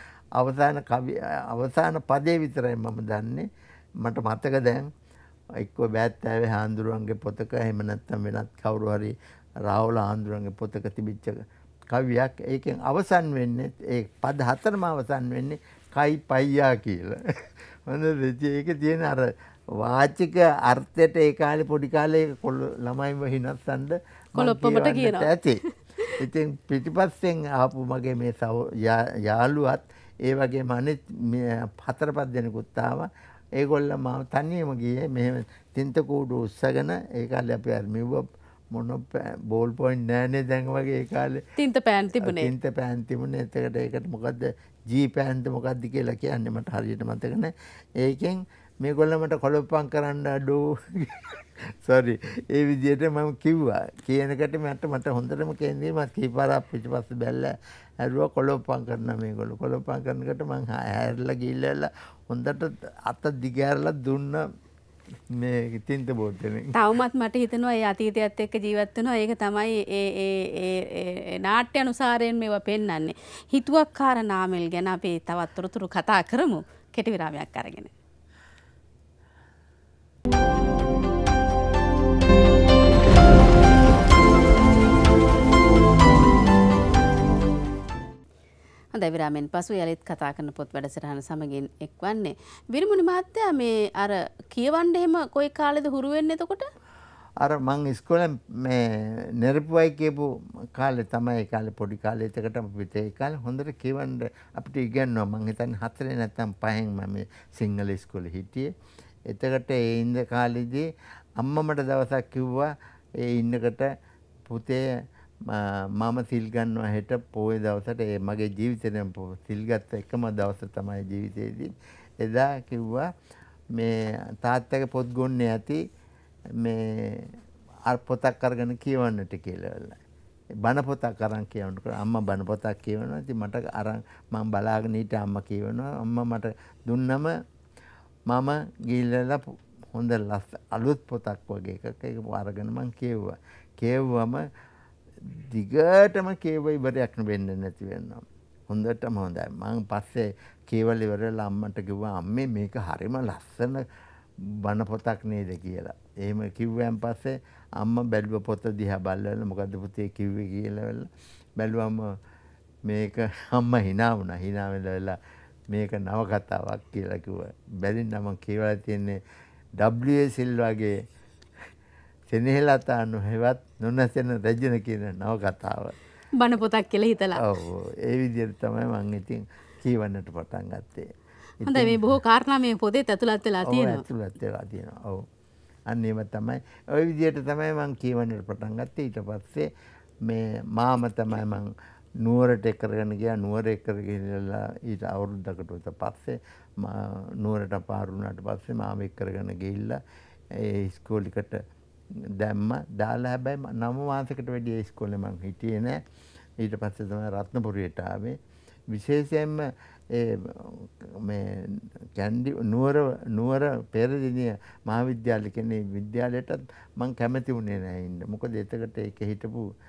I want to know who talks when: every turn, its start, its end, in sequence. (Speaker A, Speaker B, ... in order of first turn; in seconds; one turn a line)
Speaker A: 0.3-3.5
Speaker A: 4.0-4.9
Speaker A: 5.6-9.1
Speaker A: 9.7-25.6
Speaker B: 24.4-26.2
Speaker A: 26.2-41.4
Speaker B: 41.6-42.5
Speaker A: 42.1-64.4
Speaker A: 65.3-66.7
Speaker B: 66.7-77.9
Speaker B: 88.9-96.7
Speaker A: 97.4-108.7
Speaker A: 109.3-110.9
Speaker A: 111.4-113.9
Speaker A: 114.5-114.8
Speaker A: 115.4-121.7
Speaker A: 122.2-123.1
Speaker A: 123.7-125.8
Speaker A: 126.6-127.3
Speaker A: 127.9-130.0
Speaker A: 130.6-137.3
Speaker A: 138.3-144.4
Speaker A: 145.2-153.8
Speaker A: 154.6-162.1
Speaker A: 162.8-165.2
Speaker A: 165.7-169.2
Speaker A: 169.8-170.9
Speaker A: 172.3-175.9
Speaker B: 176.4-177.5
Speaker A: 177.4-181.1
Speaker A: 181.6-182.2
Speaker B: 181.6-184.0
Speaker A: 183.6-185.2
Speaker A: 185.9-189.7
Speaker A: 190.2-191.7
Speaker A: 192.2-200.0
Speaker A: 200.5-201.6
Speaker A: 202.3-206.0
Speaker A: 206.6-208.4
Speaker A: 208.9-219.6